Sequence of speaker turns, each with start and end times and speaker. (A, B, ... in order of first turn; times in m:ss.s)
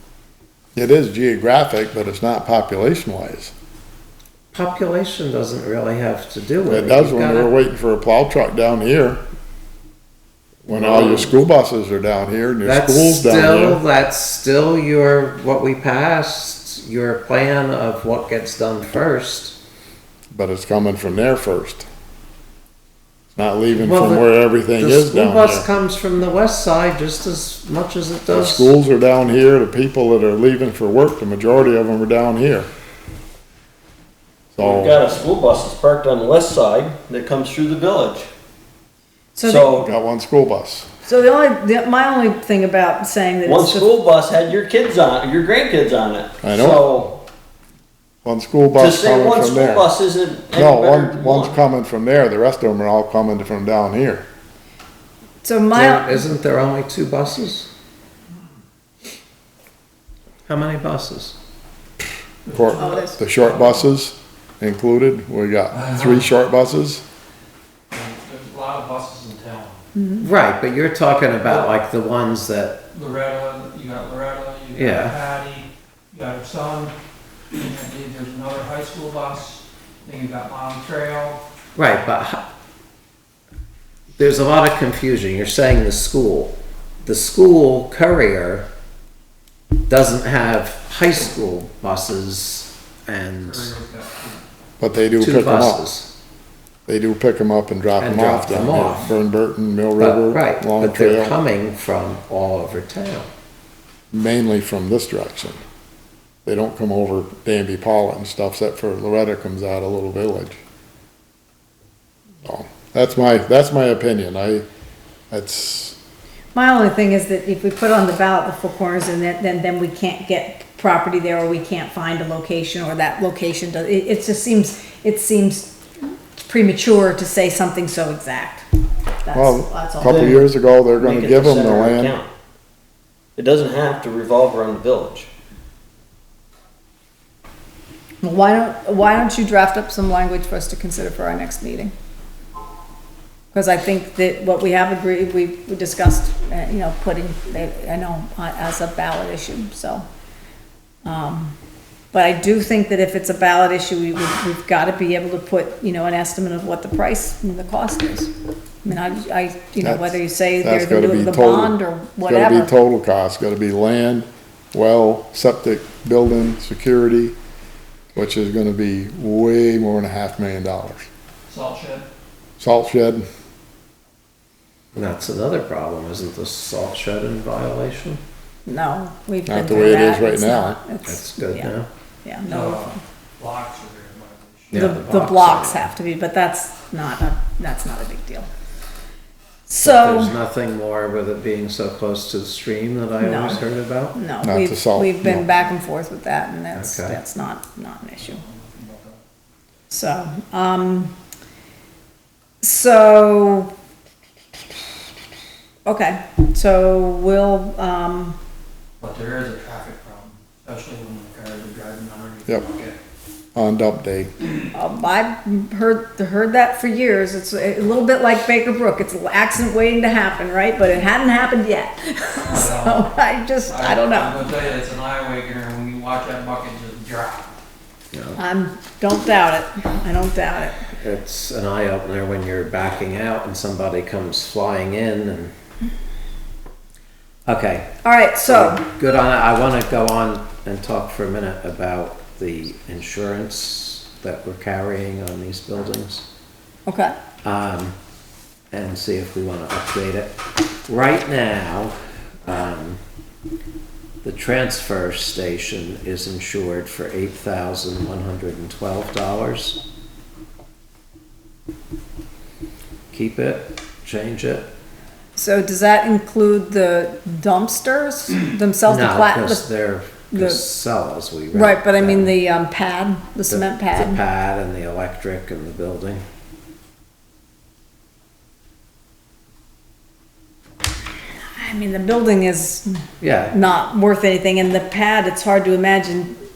0:00.8-0:03.5 A
0:04.5-0:07.5 B
0:06.7-0:09.2 A
0:10.7-0:13.8 A
0:10.7-0:11.3 B
0:12.6-0:19.6 B
0:20.3-0:21.9 A
0:23.4-0:25.7 A
0:23.7-0:28.7 B
0:28.3-0:32.7 A
0:34.5-0:35.1 A
0:34.6-0:38.3 C
0:39.4-0:39.8 D
0:39.4-0:39.9 C
0:39.8-0:40.9 A
0:41.0-0:43.9 D
0:43.4-0:47.2 C
0:46.4-0:46.9 A
0:48.2-0:49.9 A
0:48.8-0:51.6 C
0:50.5-0:54.2 A
0:55.4-0:56.2 D
0:55.7-0:57.7 B
1:00.5-1:01.4 B
1:02.5-1:03.9 E
1:02.5-1:07.0 A
1:02.8-1:03.2 D
1:05.7-1:06.2 E
1:07.9-1:09.8 E
1:10.0-1:10.2 D
1:10.2-1:12.8 B
1:12.9-1:16.9 E
1:14.8-1:15.2 B
1:17.5-1:21.4 E
1:21.8-1:22.4 B
1:24.2-1:28.7 B
1:29.9-1:33.7 B
1:33.4-1:34.4 E
1:34.8-1:35.8 A
1:35.2-1:36.1 B
1:36.9-1:41.4 A
1:38.0-1:39.1 B
1:40.0-1:43.3 B
1:44.1-1:45.6 A
1:46.4-1:50.6 A
1:52.4-1:54.7 A
1:55.3-1:56.0 A
1:56.5-2:05.8 D
2:06.5-2:08.7 D
2:09.2-2:10.4 D
2:09.3-2:12.1 A
2:11.0-2:12.3 C
2:13.4-2:15.3 C
2:18.2-2:21.9 D
2:23.5-2:30.0 D
2:31.0-2:31.6 D
2:32.1-2:38.3 D
2:38.8-2:42.7 D
2:39.8-2:47.4 A
2:48.2-2:51.1 A
2:51.5-2:52.0 E
2:52.6-2:53.2 A
2:54.9-2:58.2 B
2:58.7-3:01.7 D
2:59.5-3:00.8 A
3:01.0-3:01.9 B
3:02.2-3:03.0 D
3:02.4-3:04.9 E
3:04.7-3:05.9 B
3:04.7-3:08.5 D
3:09.7-3:10.4 D
3:09.8-3:14.2 B
3:13.2-3:13.6 D
3:14.1-3:18.4 D
3:14.4-3:15.4 A
3:16.7-3:17.2 B
3:18.2-3:19.2 E
3:19.9-3:21.1 D
3:22.6-3:23.7 D
3:25.9-3:28.4 D
3:29.0-3:33.0 E
3:33.6-3:34.3 A
3:34.7-3:44.4 D
3:42.5-3:47.5 E
3:48.1-3:48.4 B
3:48.4-3:50.9 D
3:51.0-3:55.5 B
3:57.5-3:58.0 B
3:58.0-3:58.8 D
3:58.5-4:06.2 B
4:06.9-4:07.2 D
4:07.4-4:08.0 B
4:08.7-4:13.0 B
4:14.2-4:19.8 B
4:23.1-4:24.7 B
4:25.4-4:29.7 D
4:28.9-4:32.3 B
4:30.3-4:30.6 D
4:31.5-4:34.2 D
4:33.5-4:36.2 B
4:41.5-4:43.0 D
4:43.2-4:43.6 B
4:43.5-4:46.4 D